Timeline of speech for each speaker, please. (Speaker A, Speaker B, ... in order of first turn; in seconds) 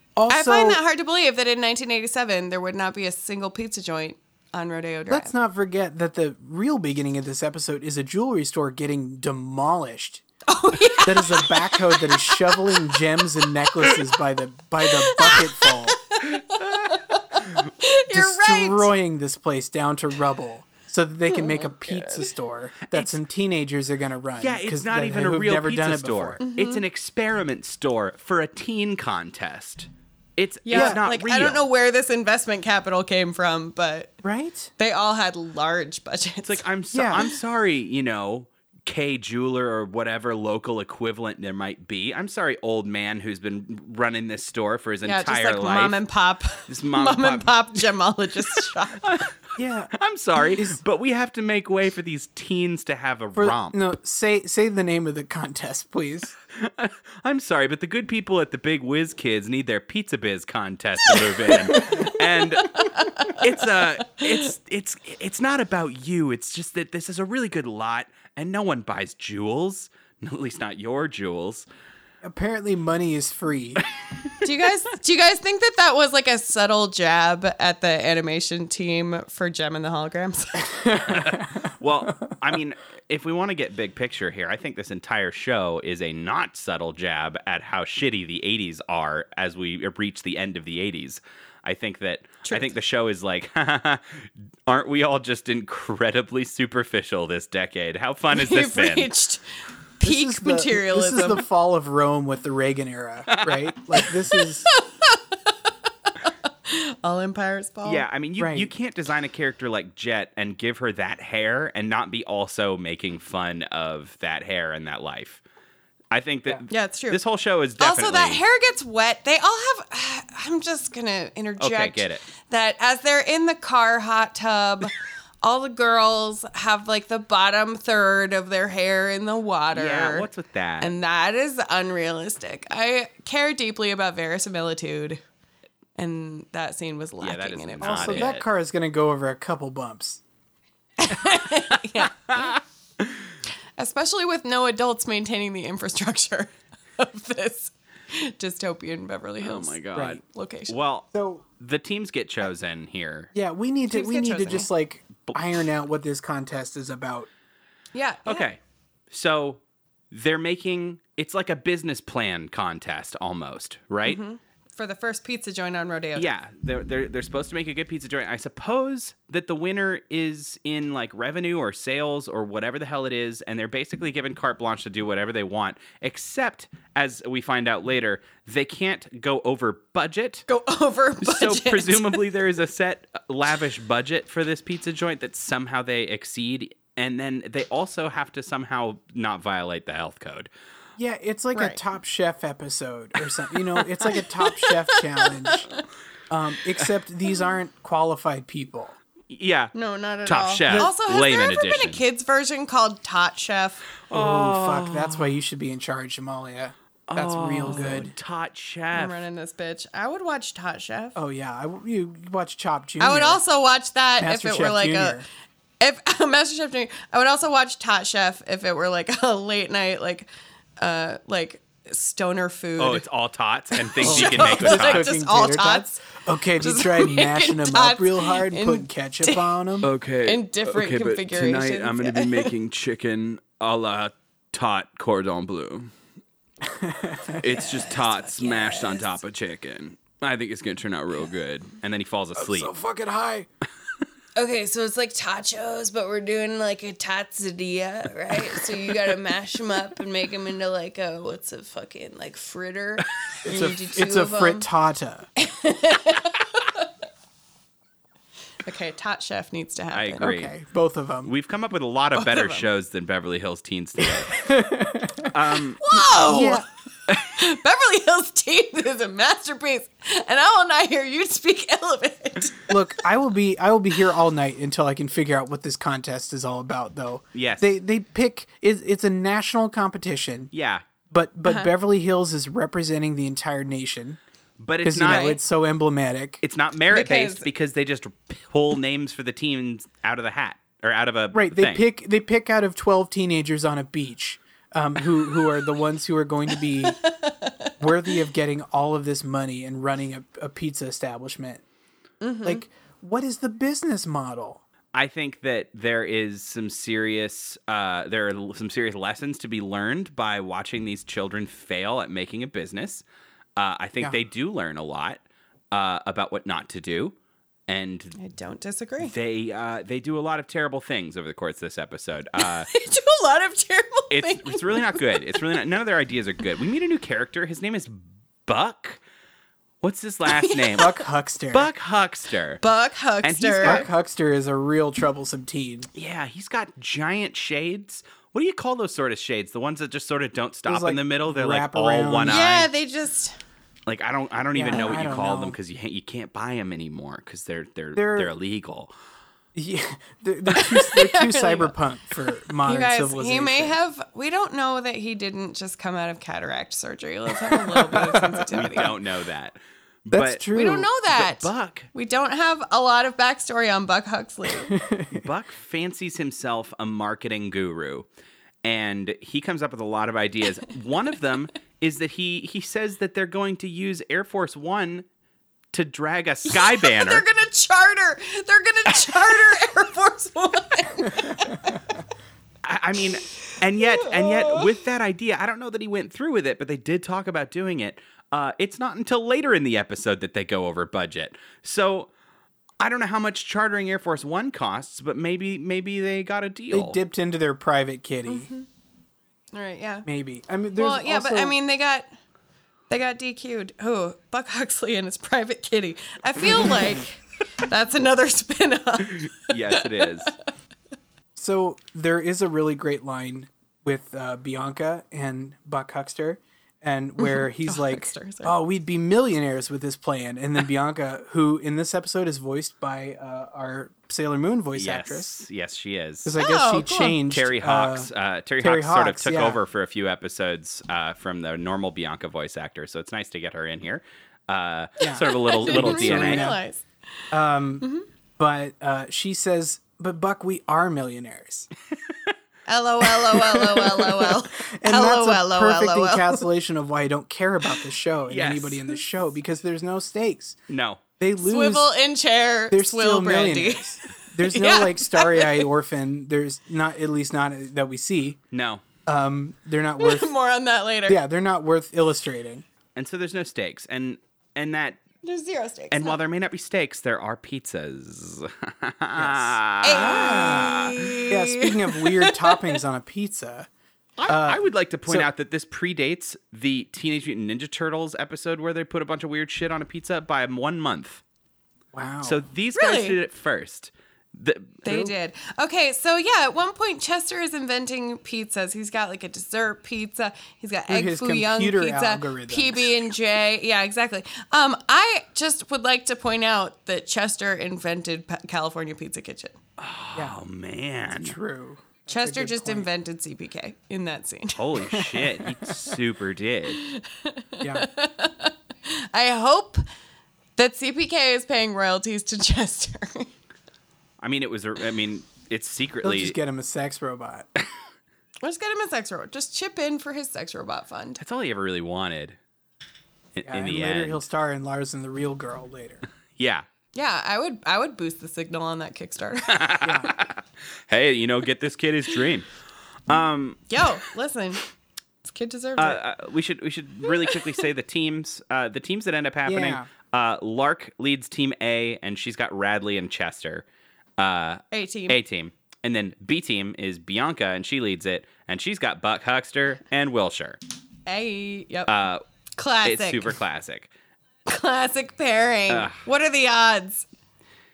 Speaker A: 0.1-0.8, 5.1-10.2, 11.0-16.0, 18.1-26.4, 30.7-31.0, 34.2-34.7, 36.9-37.2, 49.6-49.9, 50.5-50.8, 53.3-56.3, 72.2-73.8, 80.8-81.5, 100.0-104.7, 108.4-108.7, 137.8-140.2, 149.9-150.2, 151.1-151.4, 153.3-157.3, 191.0-195.7, 196.3-198.9, 204.1-208.1, 211.1-213.4, 214.2-215.2, 224.0-229.9, 236.6-237.4, 242.3-243.5, 253.4-255.3, 260.2-261.3, 264.4-265.3, 266.2-266.6, 272.7-280.5, 281.1-284.2, 284.8-286.4, 291.3-297.0, 297.8-301.6, 302.4-304.6, 330.8-331.7, 333.6-335.9, 340.6-342.6, 344.5-345.6, 347.9-348.3, 349.5-353.8, 357.4-358.9, 360.1-360.9, 364.5-365.2, 396.7-398.5, 400.0-401.5, 411.4-425.3, 426.2-428.1, 428.6-429.6, 435.0-436.6, 437.3-441.7, 443.3-450.6, 451.2-451.9, 452.7-458.4, 459.1-460.3, 461.1-462.6, 469.1-473.7, 474.3-475.3, 481.9-482.4, 490.9-493.1, 501.1-502.9, 504.9-505.6, 507.6-507.9, 516.0-517.5, 523.5-526.0, 529.8-530.1, 539.5-539.9
Speaker B: 0.3-5.3, 10.5-13.0, 14.8-18.9, 21.3-22.3, 26.4-26.8, 30.6-34.2, 34.8-36.6, 45.0-49.2, 61.4-62.1, 62.7-63.4, 74.4-80.8, 92.4-92.7, 98.3-99.4, 100.0-101.4, 104.3-105.5, 106.2-108.0, 116.7-117.2, 117.8-130.3, 130.8-135.2, 136.0-138.3, 141.0-142.6, 143.8-150.7, 153.9-154.7, 157.9-158.5, 164.0-166.3, 180.5-182.2, 191.5-191.8, 193.8-195.7, 199.7-203.9, 208.9-211.2, 213.0-215.2, 215.8-223.0, 223.7-229.7, 230.2-232.5, 237.4-239.2, 244.3-254.7, 255.4-256.9, 258.6-260.4, 262.1-262.7, 265.8-266.6, 267.2-272.8, 281.4-281.7, 285.1-285.4, 286.9-287.4, 296.7-298.1, 302.2-302.6, 318.2-319.1, 322.4-325.5, 330.3-330.9, 332.6-333.9, 342.2-343.4, 350.5-351.7, 352.6-359.0, 360.5-364.7, 376.5-382.0, 383.7-384.7, 398.3-398.7, 399.5-400.1, 400.8-402.1, 402.9-410.3, 417.2-418.5, 426.4-427.2, 435.2-436.8, 437.8-438.1, 442.7-446.4, 451.4-455.7, 460.0-461.2, 465.2-466.2, 469.8-472.8, 482.8-483.2, 484.8-499.6, 502.1-504.7, 506.8-509.8, 510.6-513.3, 518.4-521.2, 526.9-529.9, 533.7-534.6, 535.2-536.0, 537.1-537.5, 544.7-545.2, 551.0-551.9, 552.6-553.4, 554.5-557.0
Speaker C: 16.5-17.0, 24.4-31.6, 36.4-46.0, 46.7-47.9, 48.5-49.3, 49.9-53.8, 56.5-71.7, 81.1-99.1, 103.3-103.7, 107.8-115.4, 116.1-118.4, 121.6-122.2, 129.7-130.9, 137.2-138.4, 142.3-142.6, 149.4-153.3, 158.2-158.6, 159.1-164.2, 166.2-180.4, 181.2-190.5, 199.3-199.7, 200.2-202.0, 204.1-205.2, 207.1-209.2, 222.8-225.1, 229.8-235.9, 237.4-242.7, 259.9-260.5, 261.2-264.5, 265.2-265.8, 277.3-277.7, 280.5-280.8, 284.6-285.4, 286.4-291.9, 304.9-313.0, 313.6-317.1, 317.7-318.1, 319.0-322.7, 324.1-329.0, 329.8-331.0, 331.5-332.6, 333.2-333.9, 335.9-342.7, 343.9-348.9, 358.5-360.4, 361.1-361.9, 365.1-368.1, 368.6-375.1, 375.7-377.2, 382.6-392.1, 392.8-397.0, 409.2-410.3, 424.7-426.4, 427.3-436.5, 448.3-449.0, 450.7-451.0, 458.5-458.8, 462.9-465.0, 465.9-471.0, 474.2-481.2, 482.2-484.9, 499.8-501.3, 504.5-506.8, 514.2-516.4, 521.2-522.4, 523.3-524.2, 526.4-526.6, 529.5-532.5, 533.1-533.7, 535.8-543.6, 544.2-550.6, 551.9-552.2, 552.8-553.9, 555.7-556.0